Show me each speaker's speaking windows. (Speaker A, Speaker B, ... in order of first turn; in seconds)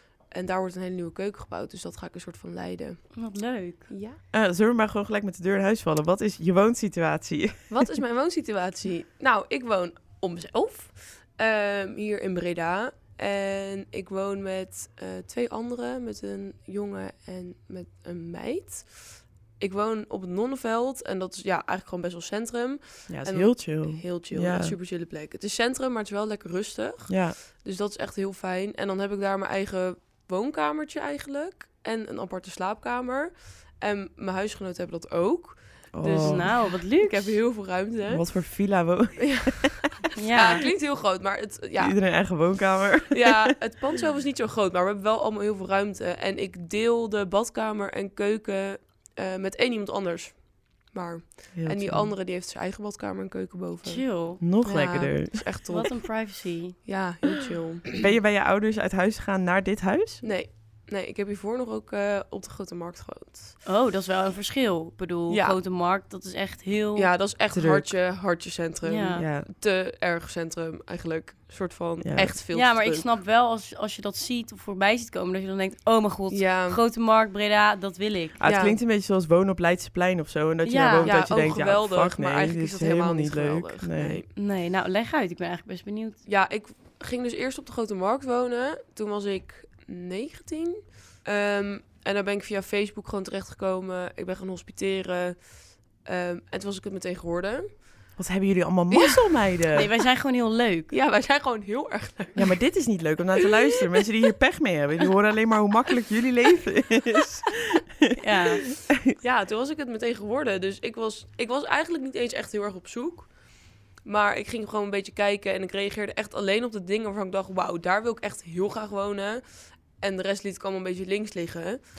Speaker A: 0.3-3.1, 3.9-4.2, 7.7-35.6, 36.1-38.3, 39.2-42.0, 43.1-50.4, 50.9-54.0, 54.6-56.0, 56.8-58.0, 60.2-63.5, 65.3-65.6, 67.0-73.0, 76.3-76.8, 78.4-78.8, 81.0-84.3, 86.2-95.5, 96.0-97.7, 98.9-99.2, 100.9-102.5, 109.2-113.3, 114.0-119.4, 120.0-121.8
Speaker B: 3.1-3.9, 36.0-37.3, 40.1-40.6, 53.8-54.4, 55.7-56.8, 63.6-67.1, 68.8-69.2, 72.5-78.4, 80.6-81.1, 84.3-86.2, 99.7-100.9, 108.2-108.6
Speaker C: 4.3-7.9, 23.1-24.8, 27.1-27.4, 35.9-36.5, 38.1-39.8, 41.8-43.5, 51.5-52.1, 54.4-55.5, 58.0-60.2, 67.5-67.9, 69.2-69.5, 72.0-72.3, 78.4-84.2, 98.2-99.9, 102.3-108.2, 108.7-109.1